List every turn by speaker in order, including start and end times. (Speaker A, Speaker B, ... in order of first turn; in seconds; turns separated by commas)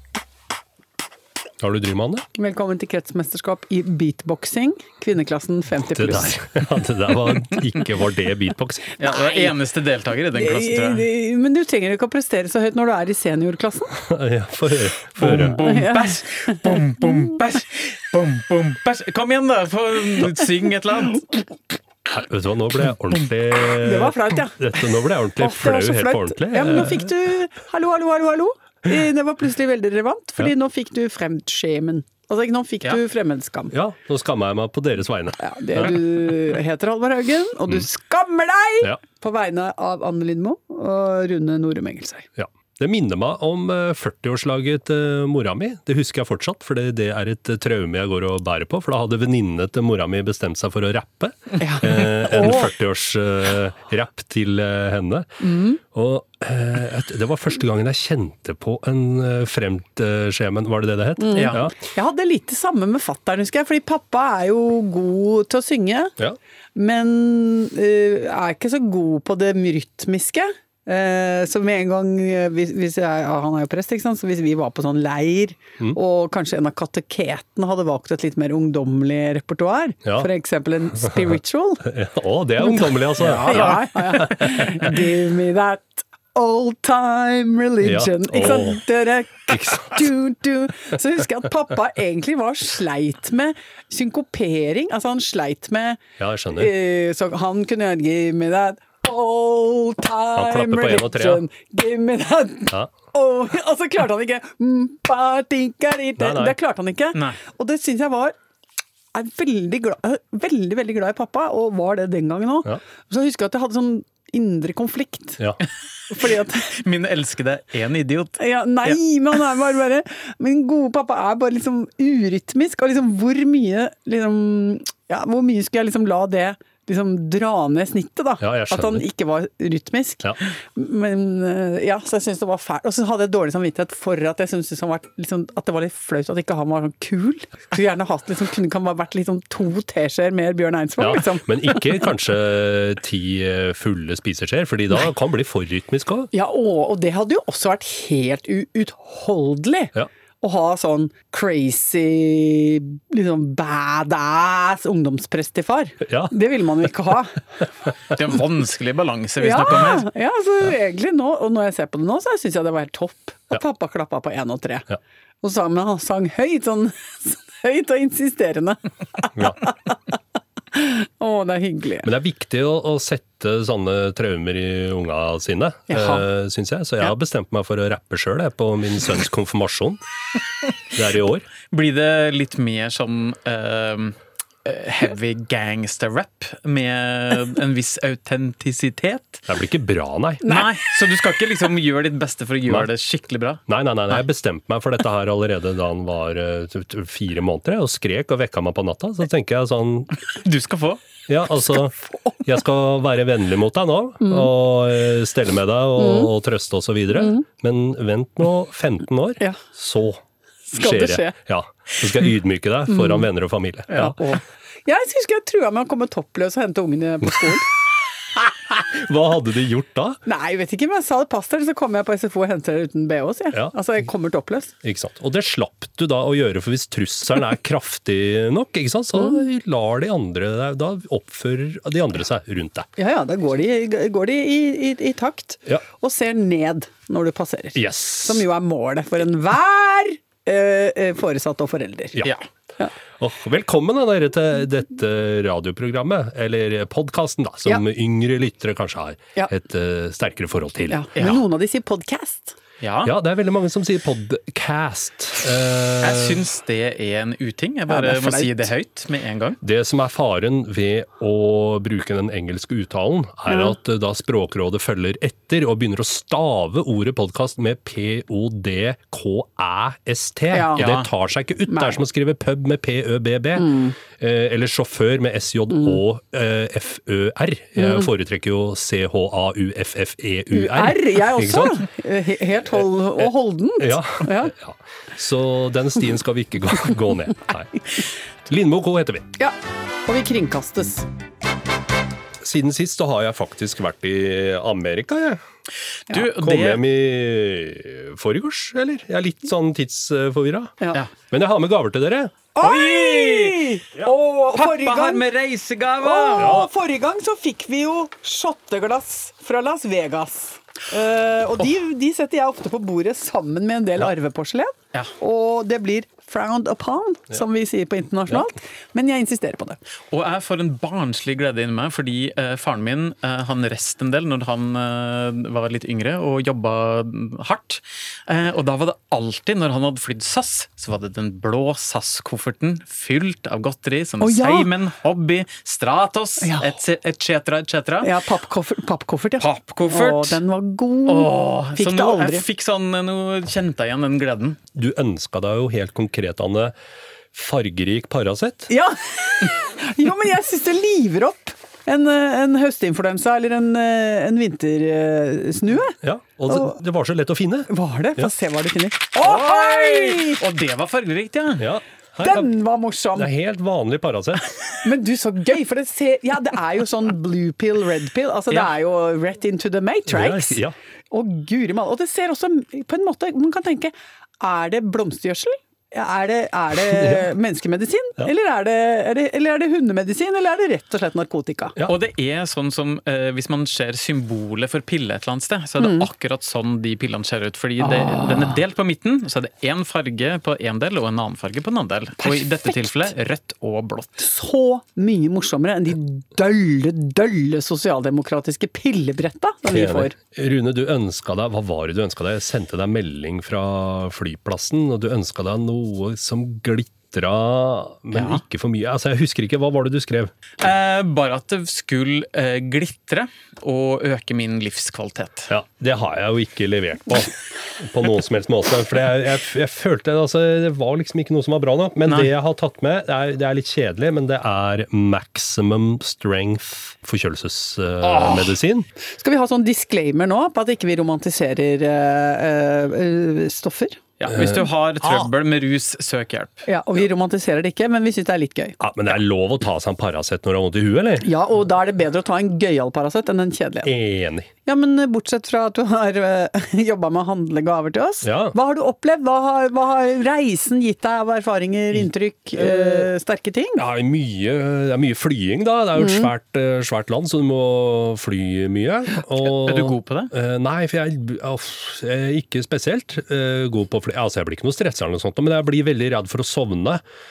Speaker A: 1.6-2.3, Speaker B: 2.4-6.5, Speaker A: 5.9-9.0, Speaker C: 9.0-11.1, Speaker B: 10.4-14.0, Speaker A: 14.0-15.7, Speaker C: 15.2-21.4, Speaker B: 15.6-16.8, Speaker A: 22.1-27.1, Speaker B: 23.8-24.7, Speaker B: 25.4-33.7, Speaker A: 33.7-36.0, Speaker B: 35.4-42.3, Speaker A: 42.4-61.8, Speaker B: 51.6-52.7, Speaker B: 55.4-55.8, Speaker B: 61.2-66.2, Speaker C: 61.4-61.6, Speaker B: 66.8-81.8, Speaker A: 80.0-80.3, Speaker A: 81.0-84.9, Speaker B: 82.6-96.0, Speaker C: 83.4-83.8, Speaker A: 87.8-88.8, Speaker A: 89.5-90.1, Speaker A: 96.2-96.7, Speaker B: 96.5-108.3, Speaker A: 100.4-101.4, Speaker A: 106.2-106.6, Speaker C: 107.1-107.4, Speaker B: 109.1-115.4, Speaker B: 116.1-116.7, Speaker C: 116.6-119.0, Speaker B: 118.4-142.1, Speaker A: 128.4-129.0, Speaker A: 141.0-146.3, Speaker B: 146.3-157.4, Speaker A: 156.1-156.3, Speaker C: 158.1-160.1, Speaker B: 159.4-164.9, Speaker B: 165.4-169.4, Speaker B: 170.7-172.1, Speaker A: 172.0-180.0, Speaker B: 175.9-176.2, Speaker A: 180.9-181.5, Speaker C: 181.7-189.5, Speaker A: 189.5-190.5, Speaker C: 190.4-194.2, Speaker A: 193.7-200.2, Speaker C: 200.3-201.0, Speaker A: 201.3-210.2, Speaker B: 202.0-202.4, Speaker B: 204.2-204.5, Speaker B: 206.0-206.3, Speaker B: 207.2-207.4, Speaker B: 210.7-211.4, Speaker A: 210.7-214.2, Speaker B: 212.9-213.3, Speaker B: 213.9-217.7, Speaker A: 218.7-220.2, Speaker B: 220.2-224.7, Speaker A: 224.8-232.9, Speaker B: 233.0-242.2, Speaker A: 237.8-238.4, Speaker A: 243.2-251.1, Speaker B: 250.9-252.6, Speaker C: 251.2-251.4, Speaker C: 252.8-253.1, Speaker A: 253.0-256.4, Speaker C: 256.0-259.6, Speaker B: 257.9-258.7, Speaker A: 259.6-281.9, Speaker B: 263.5-263.7, Speaker B: 270.5-270.9, Speaker C: 270.8-271.1, Speaker B: 271.7-272.0, Speaker B: 273.6-274.0, Speaker B: 277.8-278.1, Speaker B: 280.5-284.5, Speaker A: 283.2-287.8, Speaker A: 288.5-289.3, Speaker B: 290.1-291.1, Speaker A: 292.4-295.4, Speaker C: 296.1-296.8, Speaker A: 296.1-302.4, Speaker B: 302.6-305.2, Speaker C: 302.6-303.7, Speaker C: 304.5-306.6, Speaker B: 306.0-319.8, Speaker A: 306.4-306.7, Speaker C: 320.1-338.1, Speaker B: 334.2-334.7, Speaker B: 336.4-336.7, Speaker B: 338.0-342.4, Speaker C: 339.4-340.4, Speaker C: 341.1-344.6, Speaker A: 344.8-346.8, Speaker A: 347.3-348.7, Speaker B: 348.7-356.8, Speaker A: 356.0-358.3, Speaker B: 357.7-360.4, Speaker C: 359.2-361.7, Speaker A: 361.6-362.5, Speaker B: 362.2-363.3, Speaker A: 363.1-364.5, Speaker B: 364.8-381.8, Speaker A: 370.1-370.8, Speaker C: 381.9-394.2, Speaker B: 385.8-386.1, Speaker B: 387.8-388.5, Speaker B: 392.2-393.1, Speaker B: 394.2-400.1, Speaker A: 399.7-410.3, Speaker C: 410.6-415.5, Speaker A: 415.5-428.9, Speaker C: 422.1-422.3, Speaker B: 429.2-434.0, Speaker C: 434.2-436.6, Speaker A: 434.3-435.3, Speaker B: 436.7-438.8, Speaker A: 438.8-441.3, Speaker B: 441.2-443.9, Speaker A: 443.8-444.5, Speaker B: 444.6-453.8, Speaker A: 448.2-448.6, Speaker A: 452.6-453.1, Speaker A: 453.8-467.0, Speaker B: 456.0-456.3, Speaker C: 459.4-460.3